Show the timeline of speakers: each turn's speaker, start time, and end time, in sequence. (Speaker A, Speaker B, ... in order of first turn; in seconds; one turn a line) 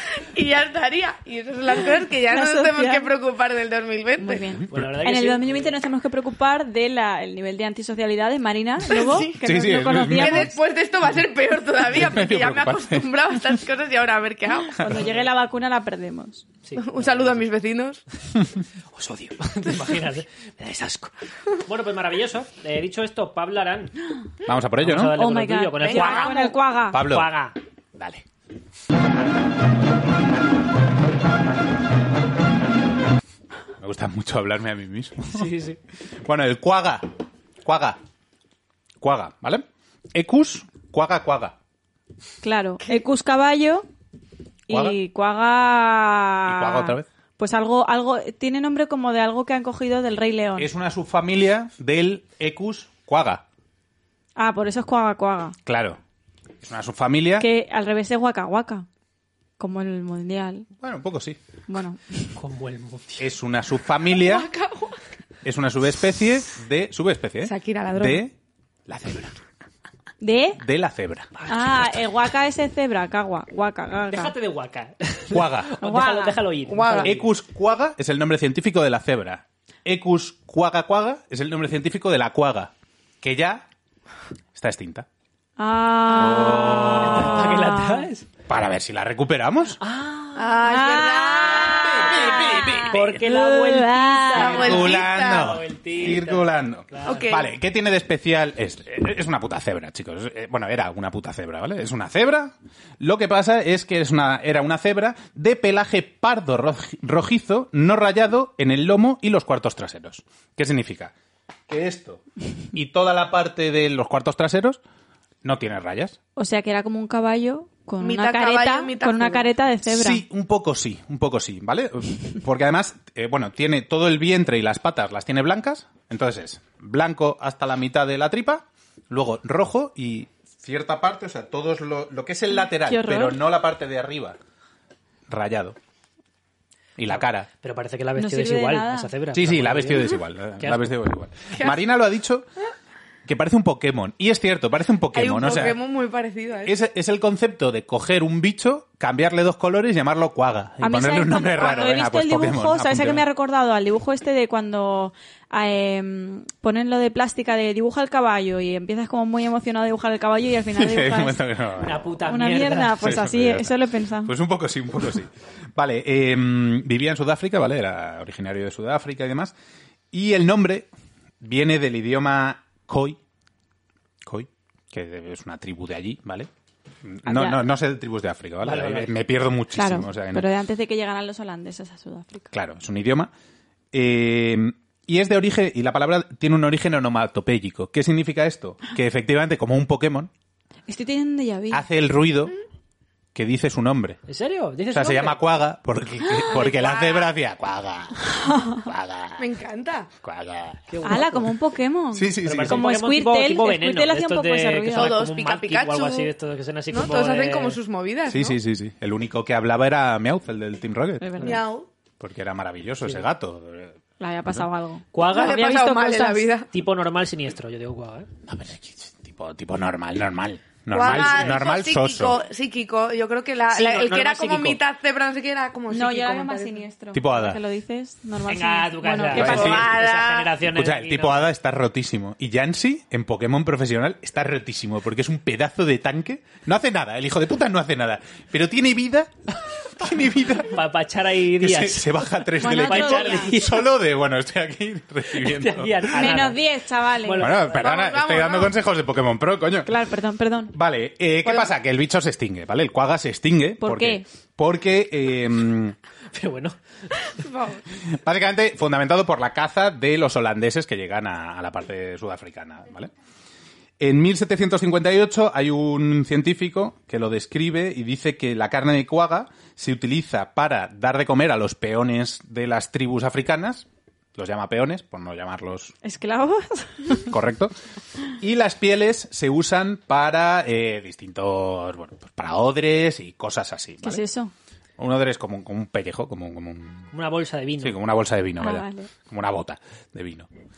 Speaker A: 0.3-4.5
Speaker B: 2.3-3.1
Speaker B: 4.2-10.5
Speaker C: 4.7-5.7
Speaker A: 8.8-9.4
Speaker D: 9.4-10.6
Speaker A: 10.1-14.8
Speaker D: 11.9-13.1
Speaker B: 14.8-16.4
Speaker C: 14.9-15.3
Speaker C: 16.6-17.5
Speaker A: 16.8-18.0
Speaker C: 18.9-23.9
Speaker D: 24.5-25.2
Speaker C: 24.8-27.6
Speaker B: 25.1-27.1
Speaker A: 25.8-26.5
Speaker D: 26.9-27.3
Speaker D: 28.0-28.2
Speaker D: 33.8-35.5
Speaker C: 35.3-35.8
Speaker D: 36.2-37.1
Speaker D: 37.6-38.0
Speaker D: 39.0-41.6
Speaker B: 42.4-43.9
Speaker B: 44.7-50.7
Speaker D: 44.7-45.0
Speaker D: 46.5-47.1
Speaker D: 50.6-53.4
Speaker B: 54.4-55.6
Speaker D: 55.7-56.0
Speaker D: 56.6-57.5
Speaker B: 57.4-58.9
Speaker B: 59.6-60.7
Speaker D: 60.8-61.4
Speaker B: 61.7-62.3
Speaker C: 62.4-63.3
Speaker D: 63.2-64.5
Speaker A: 64.1-65.0
Speaker D: 65.5-68.3
Speaker A: 67.4-68.2
Speaker D: 68.9-69.4
Speaker B: 70.2-70.6
Speaker D: 70.6-71.3
Speaker C: 71.4-71.9
Speaker B: 71.5-74.3
Speaker C: 74.1-77.3
Speaker D: 75.3-75.7
Speaker B: 75.8-76.4
Speaker A: 76.7-77.1
Speaker D: 77.0-83.7
Speaker D: 84.5-85.1
Speaker B: 85.6-88.1
Speaker D: 86.1-87.7
Speaker C: 87.0-88.3
Speaker D: 88.5-89.8
Speaker C: 89.8-90.6
Speaker A: 90.4-92.2
Speaker B: 90.6-94.8
Speaker D: 91.6-93.2
Speaker C: 92.9-97.4
Speaker A: 94.3-95.5
Speaker D: 94.4-111.1
Speaker A: 97.0-97.5
Speaker D: 111.7-112.2
Speaker D: 112.7-114.8
Speaker D: 115.4-116.2
Speaker B: 116.4-120.2
Speaker A: 118.0-119.5
Speaker D: 119.9-134.4
Speaker B: 132.7-133.4
Speaker D: 135.3-135.8
Speaker D: 137.0-137.5
Speaker C: 137.1-140.9
Speaker B: 138.2-139.1
Speaker D: 139.3-142.5
Speaker D: 143.2-145.8
Speaker A: 145.1-146.8
Speaker D: 146.7-153.2
Speaker B: 150.8-161.4
Speaker D: 160.7-162.0
Speaker C: 161.8-163.1
Speaker B: 162.3-164.3
Speaker D: 163.0-169.5
Speaker D: 170.1-170.9
Speaker D: 171.4-173.2
Speaker D: 174.2-176.5
Speaker D: 177.0-180.5
Speaker B: 177.3-177.6
Speaker C: 178.6-179.1
Speaker B: 179.7-182.5
Speaker D: 182.5-183.3
Speaker D: 183.9-190.3
Speaker B: 190.9-191.8
Speaker D: 191.7-192.5
Speaker D: 193.3-194.2
Speaker C: 194.3-195.4
Speaker D: 194.9-199.5
Speaker A: 196.5-197.3
Speaker B: 198.4-198.9
Speaker A: 199.4-200.1
Speaker D: 200.2-200.9
Speaker C: 200.9-201.5
Speaker B: 201.0-205.2
Speaker D: 202.1-202.8
Speaker C: 202.4-207.8
Speaker A: 204.9-206.3
Speaker A: 206.9-208.6
Speaker D: 208.3-211.4
Speaker B: 211.2-211.6
Speaker A: 211.4-211.9
Speaker D: 212.2-214.0
Speaker B: 214.2-216.5
Speaker C: 215.1-215.9
Speaker A: 215.2-216.7
Speaker C: 216.7-218.3
Speaker D: 218.5-222.4
Speaker A: 220.9-226.8
Speaker C: 221.0-221.6
Speaker C: 223.7-224.8
Speaker B: 225.9-229.9
Speaker D: 227.1-227.6
Speaker C: 228.5-231.5
Speaker D: 229.3-230.0
Speaker A: 229.4-230.5
Speaker D: 230.7-240.8
Speaker C: 240.7-243.9
Speaker D: 241.6-246.4
Speaker B: 242.6-243.5
Speaker C: 245.4-246.6
Speaker B: 246.1-247.5
Speaker C: 247.2-248.1
Speaker D: 247.4-249.9
Speaker A: 247.7-248.7
Speaker B: 249.8-250.7
Speaker D: 250.7-256.0
Speaker A: 251.4-251.7
Speaker B: 253.8-254.2
Speaker C: 256.3-256.8
Speaker A: 257.4-257.8
Speaker D: 258.1-263.1
Speaker D: 264.0-275.9
Speaker B: 276.0-277.3
Speaker D: 277.3-277.7
Speaker D: 278.4-284.2
Speaker B: 284.0-284.5
Speaker D: 285.0-287.1
Speaker C: 287.1-288.0
Speaker D: 287.8-290.5
Speaker B: 288.6-289.1